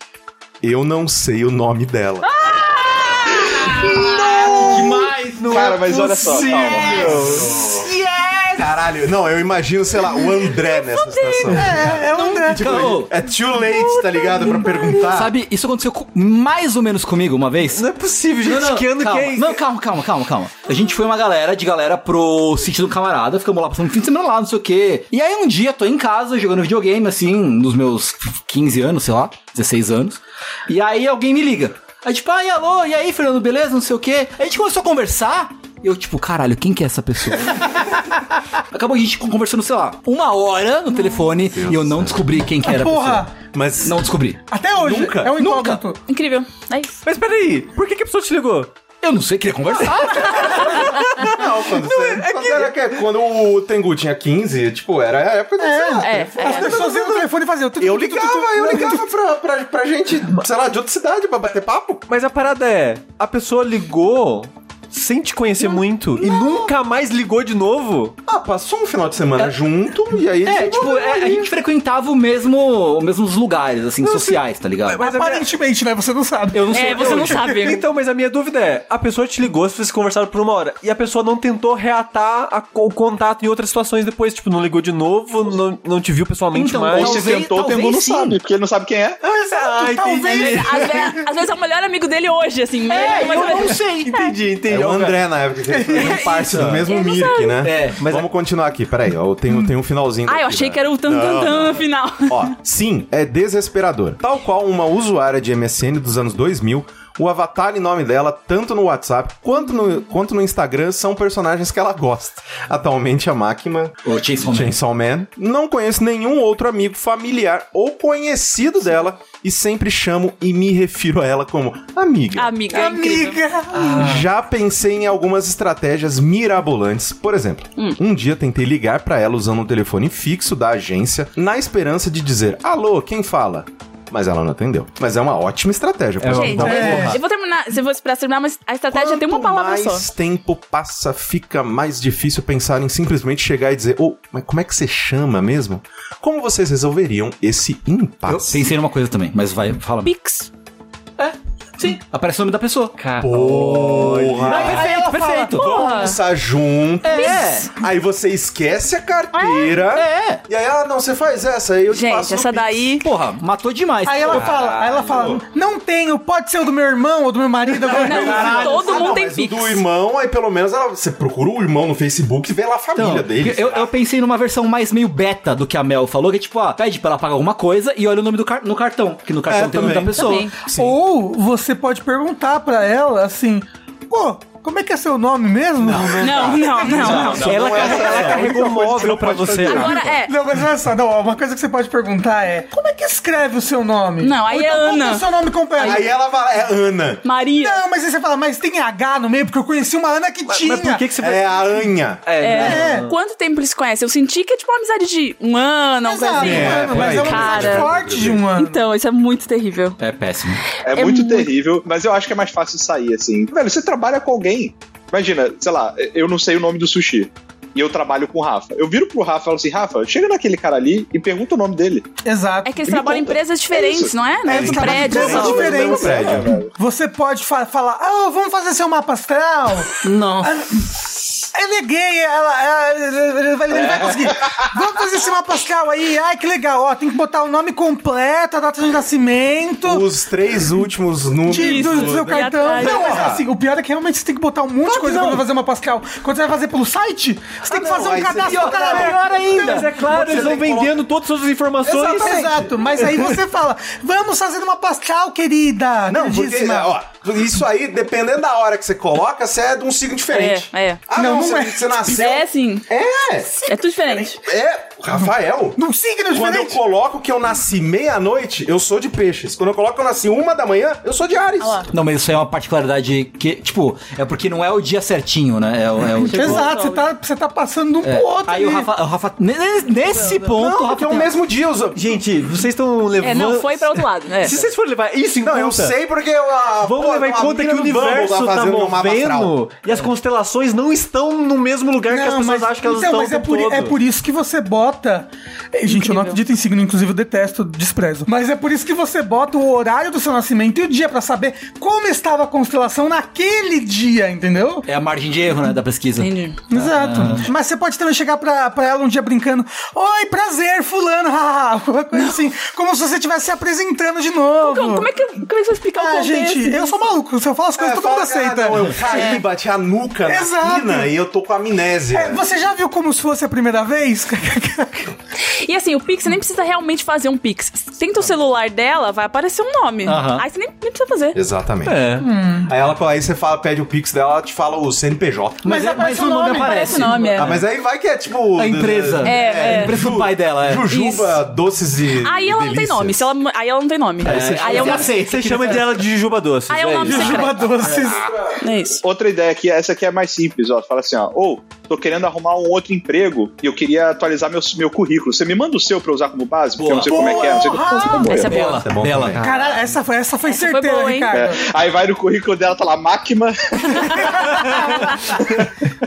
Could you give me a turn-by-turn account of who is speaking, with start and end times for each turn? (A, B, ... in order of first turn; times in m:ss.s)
0:00.6-0:02.3 A
0:02.4-0:03.2 B
0:03.3-0:08.8 C
0:03.8-0:05.0 D
0:04.6-0:07.5 E
0:05.5-0:07.1 F
0:06.8-0:07.8 A
0:08.6-0:15.3 A
0:10.7-0:11.5 B
0:11.5-0:13.0 D
0:12.1-0:13.1 C
0:15.0-0:17.9 C
0:17.7-0:19.6 E
0:18.4-0:43.3 C
0:41.5-0:42.3 A
0:42.6-0:43.3 D
0:43.5-0:44.1 A
0:43.8-0:44.4 C
0:44.5-0:46.0 D
0:44.8-0:45.4 A
0:45.3-0:45.8 C
0:46.1-0:47.0 B
0:47.0-0:48.7 E
0:49.0-0:50.7 C
0:49.8-0:51.3 E
0:50.4-0:51.1 B
0:51.1-0:57.2 A
0:51.9-0:52.7 E
0:55.6-0:59.0 D
0:56.0-0:57.0 B
0:57.8-1:02.0 A
1:02.1-1:08.2 E
1:06.2-1:06.7 D
1:08.2-1:11.4 A
1:10.4-1:15.0 C
1:14.0-1:14.4 E
1:14.9-1:17.8 D
1:15.0-1:15.5 E
1:16.5-1:17.6 C
1:16.7-1:17.8 B
1:16.9-1:27.3 E
1:26.5-1:28.4 C
1:26.9-1:29.2 F
1:29.2-1:31.2 D
1:29.5-1:31.2 E
1:30.2-1:34.2 B
1:32.9-1:34.2 C
1:33.0-1:35.2 E
1:34.7-2:02.6 A
1:35.7-1:36.3 D
1:36.0-1:37.7 B
1:37.6-1:38.0 C
1:38.0-1:38.3 E
1:40.2-1:42.5 B
1:54.0-1:54.8 C
2:02.3-2:03.4 B
2:02.7-2:04.2 D
2:03.8-2:04.2 E
2:03.9-2:17.2 A
2:16.2-2:17.1 E
2:16.3-2:20.0 B
2:16.6-2:17.2 D
2:18.9-2:28.7 A
2:28.2-2:30.1 C
2:30.0-2:30.5 B
2:31.2-2:33.0 C
2:33.0-2:34.9 E
2:33.2-2:34.9 A
2:34.5-2:35.8 C
2:34.5-2:35.7 D
2:35.5-2:36.2 B
2:35.6-2:43.0 A
2:37.0-2:37.7 C
2:37.1-2:37.7 B
2:39.3-2:39.7 B
2:39.9-2:40.4 C
2:41.9-2:43.0 B
2:43.0-2:44.6 C
2:44.0-2:49.0 D
2:44.3-2:45.4 E
2:47.9-2:49.8 B
2:47.9-2:48.9 C
2:48.0-2:53.9 A
2:52.9-3:00.5 C
2:59.4-3:01.0 A
3:00.1-3:00.6 B
3:00.7-3:16.1 D
3:05.8-3:09.7 A
3:06.2-3:07.5 B
3:07.1-3:09.4 F
3:07.3-3:10.2 E
3:07.5-3:08.4 C
3:09.6-3:10.3 B
3:14.2-3:16.0 B
3:15.8-3:17.2 A
3:17.2-3:17.8 B
3:17.5-3:21.0 D
3:20.4-3:21.7 E
3:21.2-3:22.2 A
3:22.2-3:23.1 E
3:22.4-3:27.9 B
3:22.5-3:23.1 D
3:26.0-3:28.8 D
3:26.4-3:28.4 A
3:28.5-3:30.0 B
3:30.0-3:30.6 C
3:30.8-3:42.1 F
3:30.9-3:31.5 B
3:42.2-3:43.1 D
3:42.6-3:45.9 B
3:42.9-3:44.1 F
3:44.4-4:00.1 D
3:44.4-3:46.6 A
3:45.2-3:46.7 F
3:50.0-3:50.5 B
3:53.7-3:54.7 F
3:59.8-4:03.4 A
4:01.5-4:09.8 D
4:01.5-4:03.3 B
4:04.9-4:05.4 E
4:07.7-4:11.0 A
4:08.3-4:09.9 C
4:09.5-4:13.2 E
4:11.8-4:13.1 A
4:11.9-4:16.9 D
4:16.1-4:25.8 A
4:20.3-4:21.0 B
4:21.1-4:22.0 D
4:22.0-4:22.9 B
4:23.6-4:24.4 B
4:25.1-4:26.8 D
4:26.3-4:31.9 A
4:31.6-4:31.9 B
4:31.9-4:36.7 C
4:36.2-4:37.0 B
4:36.3-4:38.9 D
4:38.0-4:41.3 C
4:40.5-4:42.2 A
4:41.9-4:46.0 E
4:43.2-4:44.6 B
4:45.4-4:49.5 A
4:46.8-4:54.0 E
4:52.1-5:04.8 D
4:55.9-4:56.4 B
5:04.8-5:07.5 C
5:06.2-5:06.6 B
5:06.7-5:15.1 D
5:07.1-5:07.4 E
5:12.1-5:12.4 B
5:14.6-5:17.1 B
5:15.9-5:19.4 D
5:17.8-5:22.4 A
5:19.0-5:19.4 B
5:20.3-5:21.1 D
5:22.1-5:25.1 D
5:25.4-5:31.4 B
5:30.0-5:30.4 C
5:31.3-5:36.0 A
5:31.8-5:32.3 E
5:32.2-5:32.7 D
5:35.6-5:37.6 C
5:35.6-5:37.2 D
5:36.5-5:37.6 B
5:37.3-5:43.3 A
5:38.5-5:40.9 C
5:39.2-5:40.0 B
5:40.9-5:41.4 B
5:42.2-5:45.1 B
5:44.2-5:46.0 C
5:44.2-5:45.1 A
5:45.0-5:47.5 E
5:46.7-5:47.8 B
5:47.0-5:48.3 D
5:48.6-5:49.0 B
5:49.0-5:58.7 F
5:56.8-5:57.5 C
5:57.1-5:58.8 D
5:58.2-5:59.4 C
5:58.3-5:58.8 B
5:58.7-5:59.9 A
5:59.4-6:01.6 D
6:00.5-6:01.4 B
6:01.3-6:04.3 F